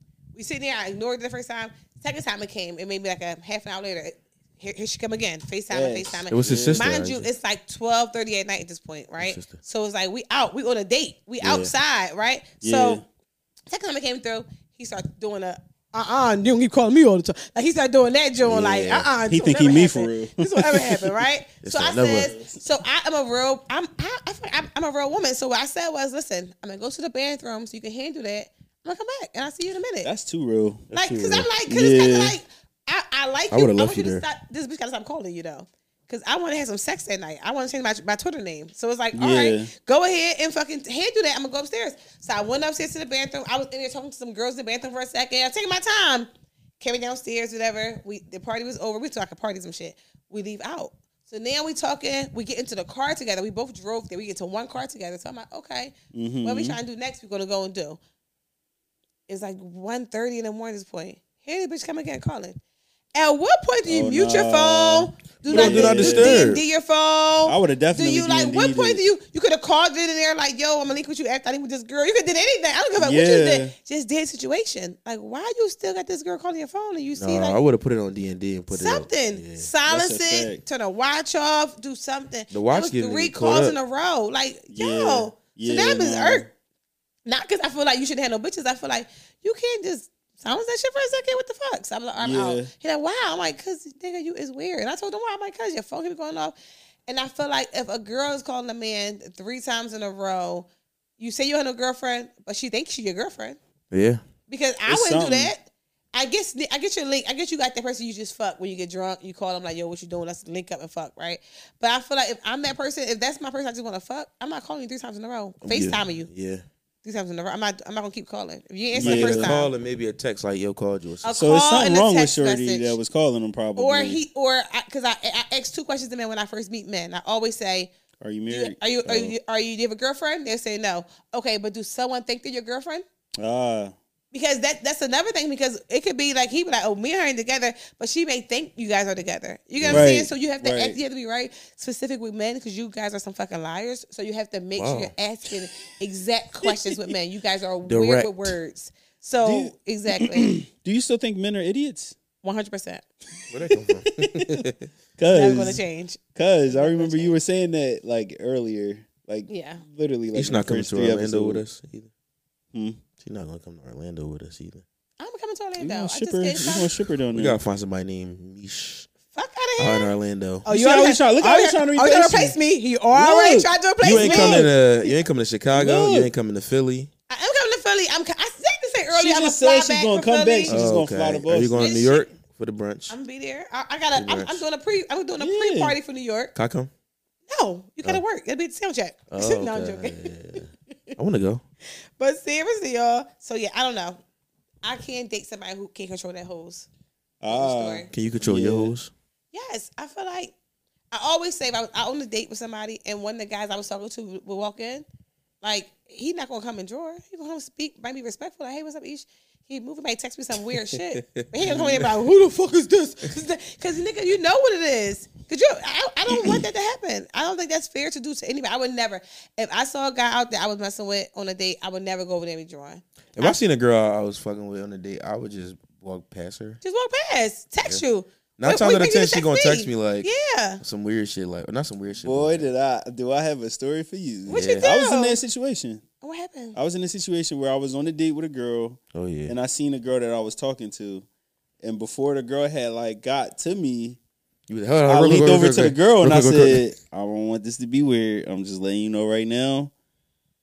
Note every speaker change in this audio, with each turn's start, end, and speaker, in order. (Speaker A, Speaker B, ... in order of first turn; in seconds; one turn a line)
Speaker A: 0.3-13.0
Speaker B: 5.7-6.9
Speaker C: 6.3-7.3
Speaker C: 9.2-9.6
Speaker C: 11.4-11.7
Speaker B: 12.6-13.0
Speaker A: 13.7-30.1
Speaker C: 18.4-19.1
Speaker B: 19.3-21.2
Speaker C: 21.6-22.3
Speaker B: 22.1-22.6
Speaker B: 30.0-30.9
Speaker C: 30.9-31.5
Speaker A: 30.9-46.3
Speaker B: 31.7-32.4
Speaker C: 33.5-34.2
Speaker B: 39.1-39.7
Speaker A: 46.8-58.0
Speaker B: 56.1-56.8
Speaker A: 59.3-62.6
Speaker A: 63.1-77.6
Speaker B: 63.9-66.5
Speaker C: 65.4-66.6
Speaker B: 67.5-69.0
Speaker B: 73.0-73.7
Speaker C: 77.2-79.7
Speaker A: 78.7-86.5
Speaker B: 79.9-80.6
Speaker C: 82.5-83.8
Speaker B: 84.7-86.5
Speaker A: 87.3-96.5
Speaker B: 92.2-92.7
Speaker A: 97.1-103.6
Speaker C: 103.9-104.2
Speaker A: 104.5-116.3
Speaker B: 104.9-105.5
Speaker C: 115.6-116.6
Speaker A: 117.0-119.7
Speaker B: 118.9-119.5
Speaker C: 119.0-121.4
Speaker A: 121.2-123.0
Speaker B: 121.3-124.2
Speaker A: 123.8-127.9
Speaker B: 128.2-129.3
Speaker A: 128.5-133.1
Speaker B: 133.4-133.9
Speaker A: 134.3-150.6
Speaker C: 139.8-140.1
Speaker B: 139.9-141.0
Speaker C: 144.8-145.1
Speaker C: 147.9-148.6
Speaker B: 149.4-152.2
Speaker A: 152.4-153.1
Speaker C: 153.5-154.9
Speaker B: 153.7-154.7
Speaker B: 155.2-155.8
Speaker A: 155.3-157.4
Speaker B: 156.3-161.6
Speaker A: 159.5-159.8
Speaker C: 160.3-162.1
Speaker B: 162.7-163.0
Speaker C: 163.2-164.8
Speaker A: 165.2-166.9
Speaker B: 165.8-167.6
Speaker C: 167.3-169.1
Speaker A: 169.3-170.1
Speaker C: 169.8-170.7
Speaker A: 170.6-174.7
Speaker B: 170.7-172.6
Speaker B: 173.1-174.7
Speaker C: 174.0-177.1
Speaker B: 175.7-176.3
Speaker A: 177.3-180.8
Speaker B: 179.1-181.9
Speaker C: 180.7-183.1
Speaker A: 181.8-182.3
Speaker A: 183.1-186.5
Speaker C: 184.1-184.6
Speaker B: 185.4-186.0
Speaker C: 186.6-186.9
Speaker A: 187.5-190.6
Speaker C: 189.3-191.6
Speaker A: 192.2-194.2
Speaker A: 194.8-196.9
Speaker B: 197.4-198.9
Speaker A: 197.5-198.1
Speaker C: 198.1-199.1
Speaker A: 199.5-200.5
Speaker A: 201.1-205.1
Speaker A: 205.6-223.6
Speaker C: 210.7-212.1
Speaker C: 223.4-226.8
Speaker A: 226.8-230.8
Speaker C: 228.6-230.3
Speaker C: 230.8-232.7
Speaker B: 232.2-236.0
Speaker C: 234.5-234.9
Speaker A: 234.5-235.4
Speaker A: 236.2-236.8
Speaker B: 236.7-241.3
Speaker C: 239.1-239.5
Speaker B: 241.8-244.2
Speaker C: 244.7-246.8
Speaker B: 245.1-249.9